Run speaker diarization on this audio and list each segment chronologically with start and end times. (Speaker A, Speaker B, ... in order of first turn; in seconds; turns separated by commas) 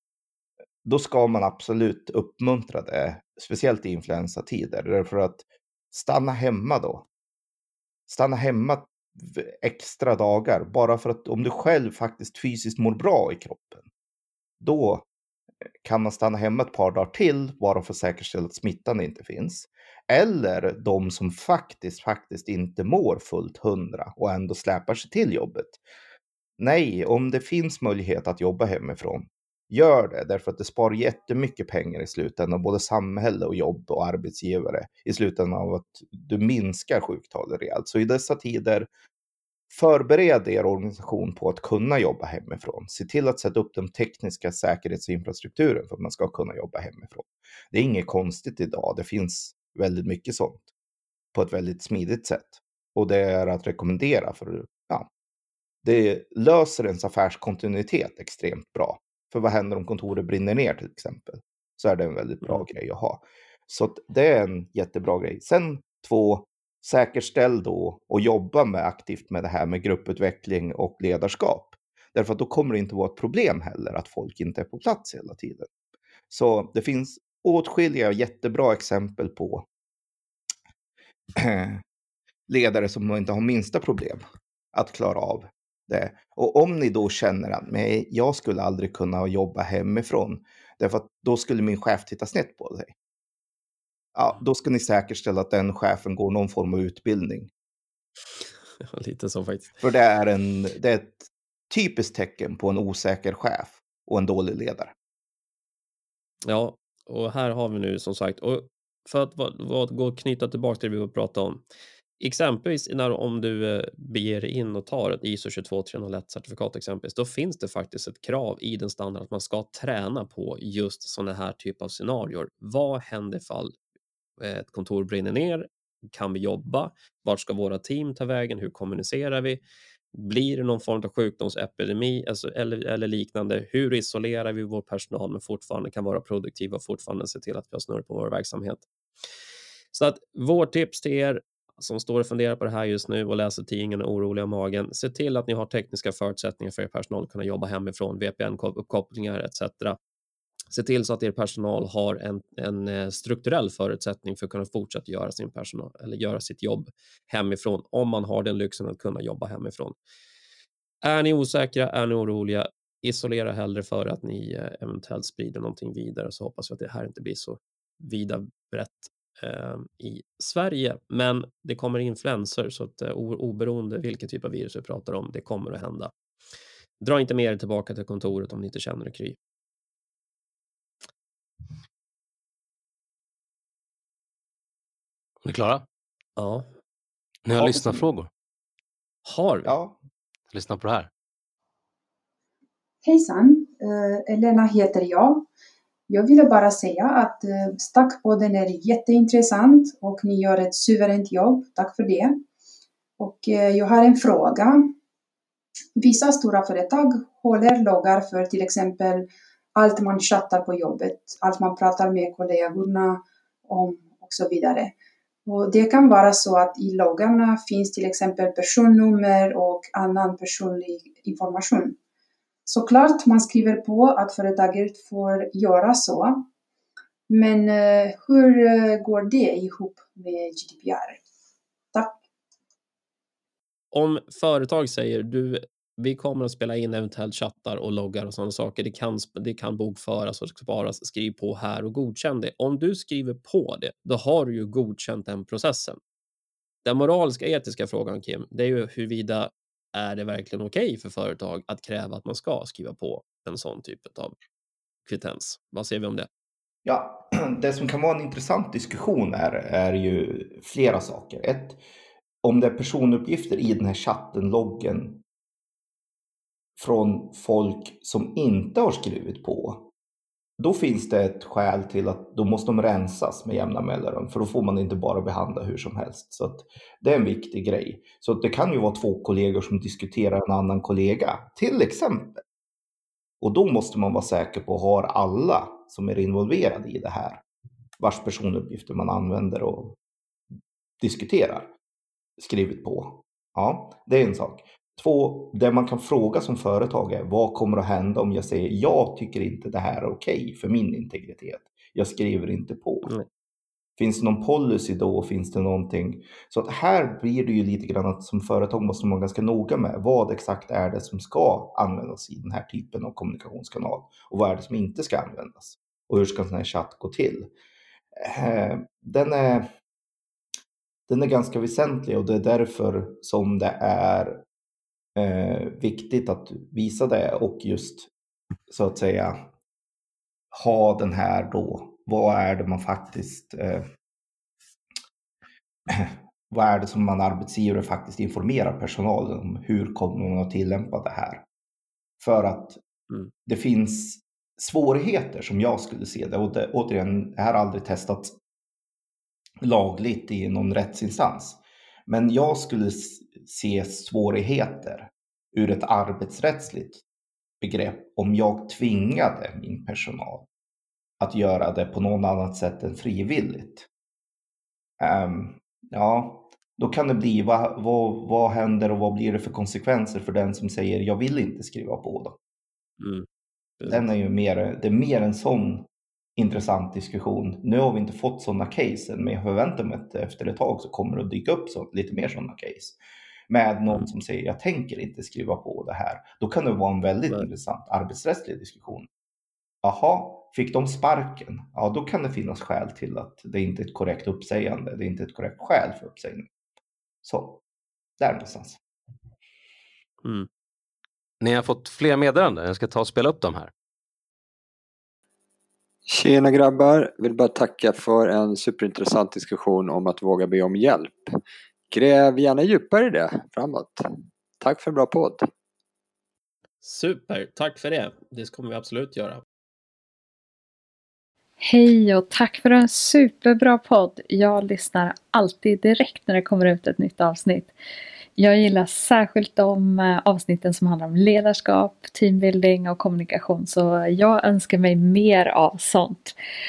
Speaker A: 0.8-7.0, Speaker A: 8.1-13.9, Speaker A: 14.6-15.1, Speaker A: 15.8-25.8, Speaker A: 26.6-38.9, Speaker A: 39.7-50.7, Speaker A: 51.3-55.1, Speaker A: 55.8-75.7, Speaker A: 76.3-79.7, Speaker A: 81.3-81.8, Speaker A: 82.5-92.9, Speaker A: 94.1-97.5, Speaker B: 98.8-99.7, Speaker A: 99.8-104.9, Speaker B: 106.5-111.6, Speaker B: 112.2-123.8, Speaker B: 124.4-129.6, Speaker B: 130.1-138.8, Speaker B: 139.9-150.0, Speaker B: 150.7-159.9, Speaker B: 161.0-176.1, Speaker B: 177.0-179.4, Speaker C: 185.4-185.8, Speaker B: 186.4-186.7, Speaker C: 187.4-188.3, Speaker A: 187.6-188.1, Speaker B: 189.2-189.7, Speaker A: 189.6-190.0, Speaker C: 190.5-191.1, Speaker D: 193.0-195.5, Speaker D: 196.1-202.4, Speaker D: 203.2-204.9, Speaker D: 205.9-214.9, Speaker D: 215.4-222.0, Speaker D: 222.7-226.5, Speaker D: 227.3-231.2, Speaker B: 233.9-246.0, Speaker B: 246.8-254.3, Speaker B: 255.1-256.3, Speaker A: 256.8-261.8, Speaker A: 262.4-265.2, Speaker A: 266.8-269.9, Speaker A: 270.6-282.4, Speaker A: 283.4-287.4, Speaker A: 288.0-290.0, Speaker A: 291.0-291.7, Speaker A: 292.4-303.1, Speaker A: 304.0-317.5, Speaker A: 318.1-319.7, Speaker A: 321.1-324.4, Speaker A: 325.1-328.1, Speaker A: 328.7-329.5, Speaker A: 330.5-333.9, Speaker A: 335.9-341.4, Speaker A: 342.2-342.8, Speaker A: 343.4-348.4, Speaker A: 349.6-357.0, Speaker A: 357.6-360.5, Speaker A: 361.2-363.9, Speaker A: 365.0-372.4, Speaker B: 373.0-373.3, Speaker B: 373.8-374.1, Speaker A: 373.8-383.0, Speaker A: 383.5-389.1, Speaker A: 389.8-396.5, Speaker A: 397.2-397.6, Speaker A: 398.2-398.8, Speaker C: 401.4-403.7, Speaker E: 406.1-411.3, Speaker E: 411.9-414.0, Speaker E: 414.6-415.5, Speaker B: 416.8-419.4, Speaker F: 421.6-427.7, Speaker F: 428.4-436.4